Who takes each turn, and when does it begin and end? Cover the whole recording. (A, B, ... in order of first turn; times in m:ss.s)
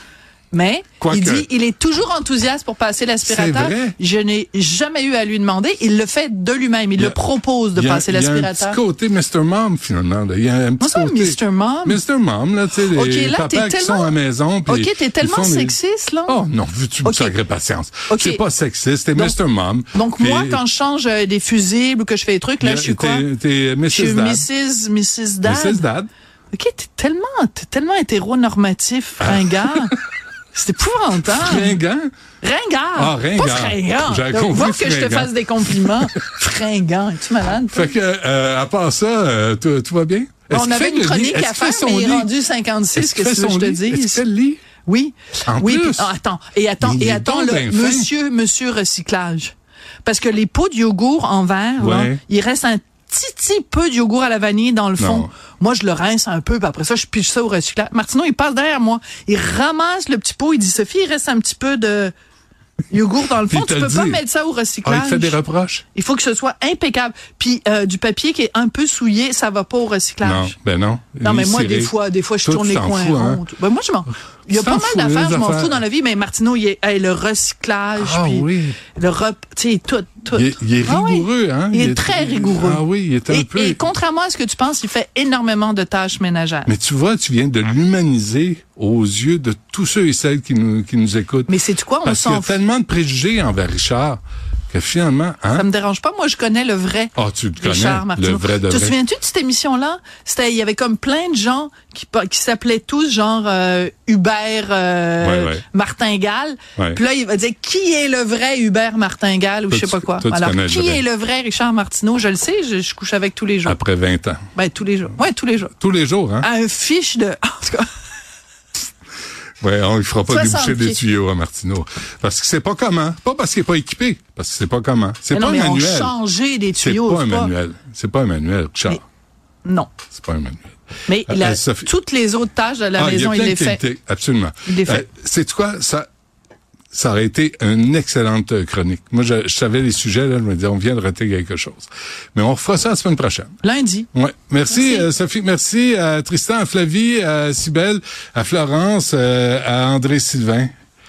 0:00.5-0:08.8 A
0:01.0-0:01.5 B
0:03.2-0:03.9 B
0:07.7-0:20.6 B
0:10.8-0:12.0 A
0:12.9-0:14.1 A
0:14.6-0:16.4 A
0:17.0-0:17.4 A
0:18.1-0:18.4 A
0:19.9-0:23.2 A
0:22.6-0:24.5 B
0:23.9-0:25.8 A
0:25.4-0:26.1 B
0:26.5-0:29.9 A
0:29.2-0:29.9 B
0:30.5-0:31.8 A
0:31.2-0:32.1 B
0:32.4-0:37.9 A
0:33.0-0:36.1 B
0:37.7-0:42.3 B
0:40.5-0:44.2 A
0:42.9-0:44.6 B
0:44.8-1:02.1 A
0:45.5-0:46.1 B
0:46.8-0:48.1 B
0:51.8-0:52.2 B
0:55.0-0:55.3 B
1:02.9-1:05.4 A
1:03.4-1:04.2 B
1:04.8-1:05.8 B
1:05.9-1:10.5 A
1:10.2-1:13.4 B
1:11.2-1:26.7 A
1:14.5-1:15.8 B
1:18.0-1:18.8 B
1:20.3-1:23.8 B
1:26.6-1:35.7 B
1:31.5-1:32.6 A
1:35.5-1:53.8 A
1:37.2-1:39.0 B
1:45.2-1:45.6 B
1:49.7-1:51.0 B
1:53.6-1:54.4 B
1:54.5-1:55.8 A
1:55.8-1:56.5 B
1:56.4-1:57.8 A
1:59.6-2:06.1 B
2:00.3-2:01.0 A
2:05.3-2:07.5 A
2:06.8-2:09.0 B
2:09.6-2:09.9 A
2:10.1-2:10.7 B
2:11.1-2:13.8 A
2:11.3-2:11.9 B
2:13.0-2:16.1 B
2:14.6-2:15.0 A
2:16.9-2:23.5 B
2:23.6-2:24.1 A
2:24.1-2:30.7 B
2:24.7-2:25.1 A